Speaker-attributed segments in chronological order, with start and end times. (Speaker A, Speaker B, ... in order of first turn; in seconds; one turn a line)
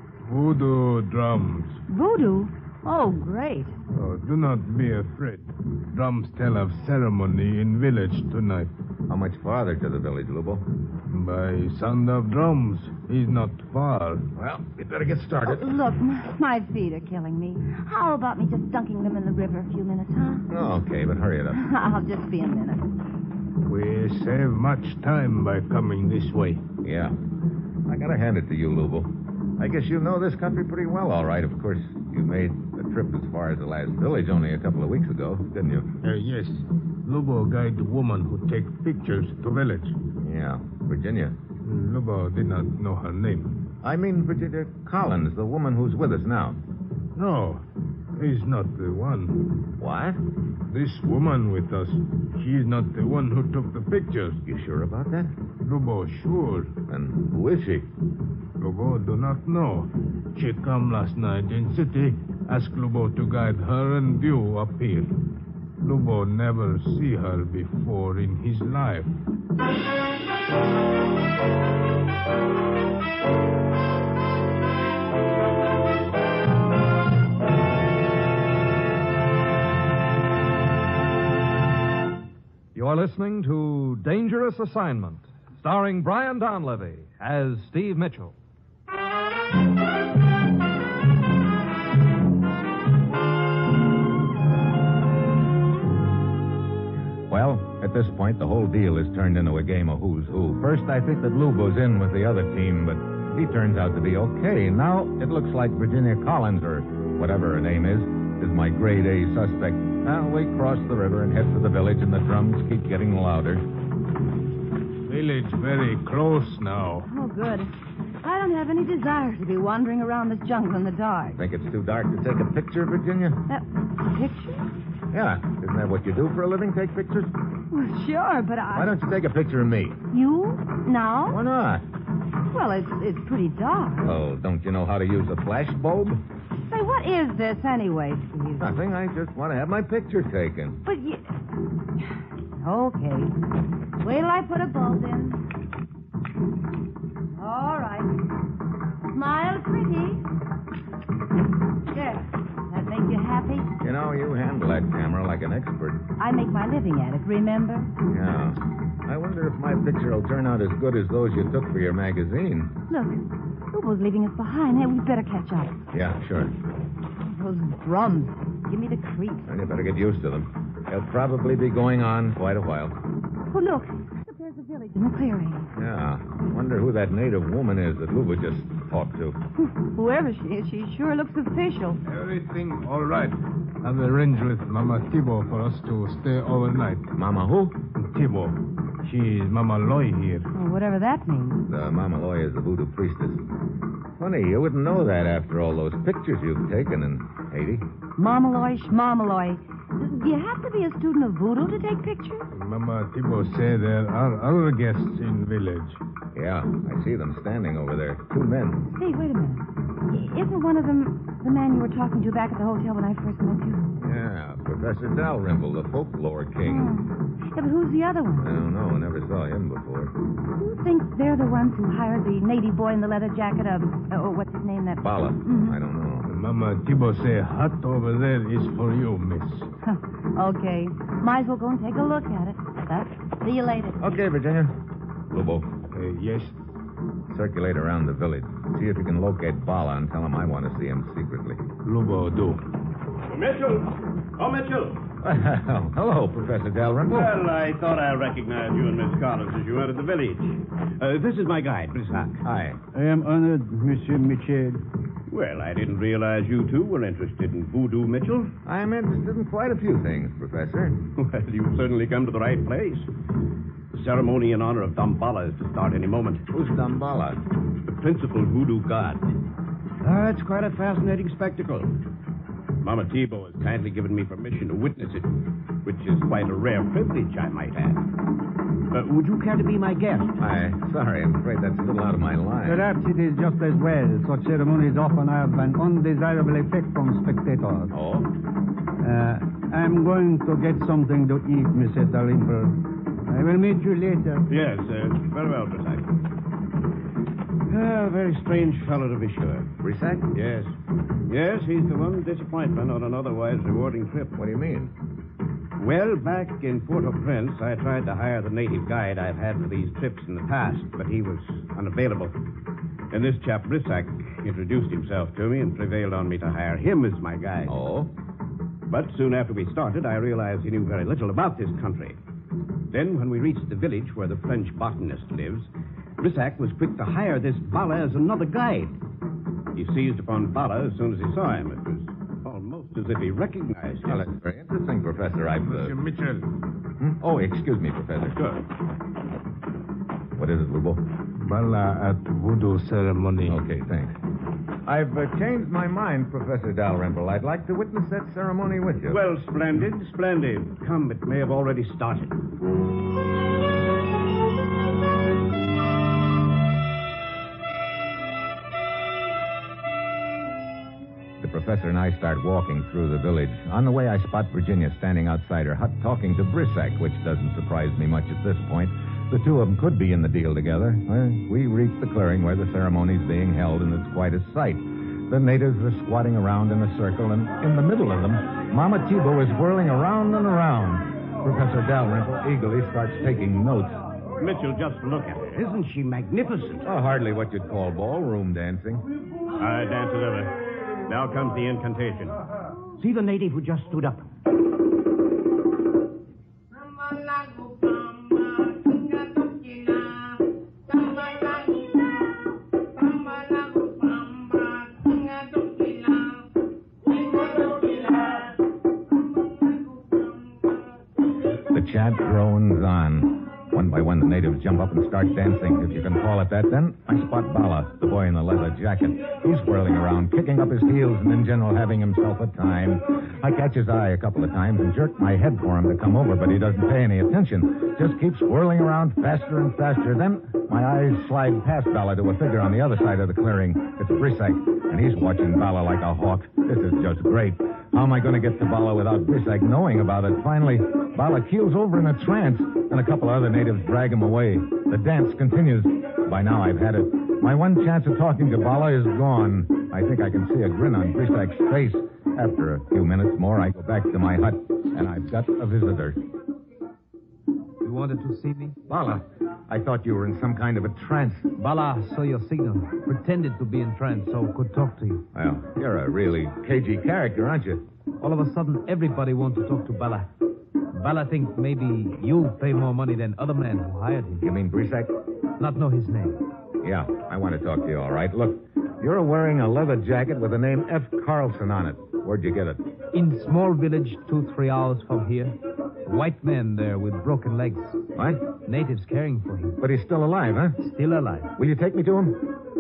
Speaker A: 0.2-1.8
Speaker B: 1.9-3.8
Speaker A: 3.9-8.7
Speaker C: 9.1-10.7
Speaker A: 11.1-14.3
Speaker C: 14.4-15.6
Speaker B: 15.4-20.5
Speaker C: 20.5-21.6
Speaker B: 21.5-22.9
Speaker A: 23.7-26.6
Speaker C: 26.8-27.2
Speaker C: 27.9-35.9
Speaker A: 36.0-40.0
Speaker C: 40.2-41.4
Speaker A: 41.6-43.6
Speaker C: 43.8-46.6
Speaker A: 47.1-47.6
Speaker A: 48.1-49.6
Speaker C: 49.8-50.2
Speaker A: 50.7-54.4
Speaker C: 54.5-55.4
Speaker A: 55.6-56.7
Speaker C: 56.9-57.9
Speaker A: 58.6-65.1
Speaker A: 65.8-69.1
Speaker D: 82.8-88.3
Speaker C: 97.3-113.6
Speaker A: 115.0-117.1
Speaker B: 117.1-117.7
Speaker B: 118.2-121.4
Speaker C: 121.4-123.4
Speaker B: 123.5-124.7
Speaker C: 125.1-127.3
Speaker B: 127.7-128.9
Speaker C: 128.7-130.0
Speaker B: 130.1-131.4
Speaker C: 131.3-131.8
Speaker B: 132.5-134.1
Speaker C: 134.0-136.2
Speaker B: 136.6-138.7
Speaker C: 138.6-140.8
Speaker B: 140.8-141.2
Speaker B: 142.6-143.3
Speaker B: 144.0-145.4
Speaker B: 147.4-148.1
Speaker B: 149.1-150.2
Speaker B: 151.9-153.7
Speaker C: 153.8-156.1
Speaker B: 156.2-157.9
Speaker C: 158.1-162.8
Speaker B: 162.9-163.2
Speaker B: 163.7-165.8
Speaker C: 165.9-166.5
Speaker B: 167.2-169.5
Speaker C: 169.5-173.0
Speaker B: 173.5-175.7
Speaker C: 175.8-179.4
Speaker B: 179.6-182.0
Speaker A: 182.1-187.1
Speaker C: 187.2-187.8
Speaker A: 188.0-190.5
Speaker B: 190.5-191.7
Speaker C: 191.7-193.4
Speaker C: 194.2-197.8
Speaker B: 198.2-202.5
Speaker A: 202.5-206.0
Speaker C: 206.3-208.9
Speaker B: 208.9-214.0
Speaker C: 214.0-216.9
Speaker B: 216.6-218.5
Speaker C: 218.4-220.1
Speaker B: 220.6-225.8
Speaker C: 225.0-226.3
Speaker A: 226.2-229.7
Speaker B: 229.8-234.0
Speaker C: 234.0-234.7
Speaker C: 235.3-235.7
Speaker A: 235.9-236.6
Speaker C: 237.3-241.6
Speaker A: 241.8-242.6
Speaker E: 243.3-245.0
Speaker C: 245.2-247.4
Speaker E: 247.1-252.4
Speaker C: 252.4-252.8
Speaker F: 252.9-254.8
Speaker E: 255.3-258.5
Speaker C: 258.6-261.0
Speaker E: 261.2-263.1
Speaker E: 263.9-266.4
Speaker C: 266.5-267.4
Speaker E: 267.8-269.2
Speaker E: 270.0-271.9
Speaker E: 272.8-275.3
Speaker E: 275.8-278.0
Speaker E: 278.9-280.4
Speaker C: 280.4-282.9
Speaker F: 282.6-287.9
Speaker C: 287.9-288.3
Speaker F: 289.0-294.5
Speaker E: 294.5-296.1
Speaker E: 297.7-299.7
Speaker C: 299.8-300.3
Speaker E: 300.3-300.7
Speaker E: 301.3-304.4
Speaker C: 304.4-304.9
Speaker E: 305.8-312.4
Speaker E: 313.1-317.8
Speaker C: 317.7-318.1
Speaker E: 318.9-322.2
Speaker E: 322.9-329.0
Speaker E: 329.8-334.3
Speaker C: 334.1-335.9
Speaker A: 335.6-336.5
Speaker C: 337.0-338.4
Speaker C: 340.4-341.0
Speaker A: 341.4-343.6
Speaker C: 343.5-344.1
Speaker C: 344.9-349.2
Speaker E: 349.1-352.4
Speaker C: 361.4-384.0
Speaker E: 384.4-386.9
Speaker C: 386.9-389.1
Speaker E: 389.6-392.4
Speaker E: 393.0-394.3
Speaker C: 411.7-456.2
Speaker G: 457.8-458.8
Speaker C: 458.9-461.5
Speaker G: 461.6-465.2
Speaker C: 465.3-467.8
Speaker G: 468.2-470.3
Speaker G: 470.9-474.5
Speaker C: 474.4-475.1
Speaker G: 475.6-476.4
Speaker C: 476.8-482.8
Speaker G: 483.1-488.0
Speaker C: 488.1-488.4
Speaker G: 488.6-489.8
Speaker C: 489.8-490.8
Speaker G: 490.8-491.5
Speaker C: 491.6-492.4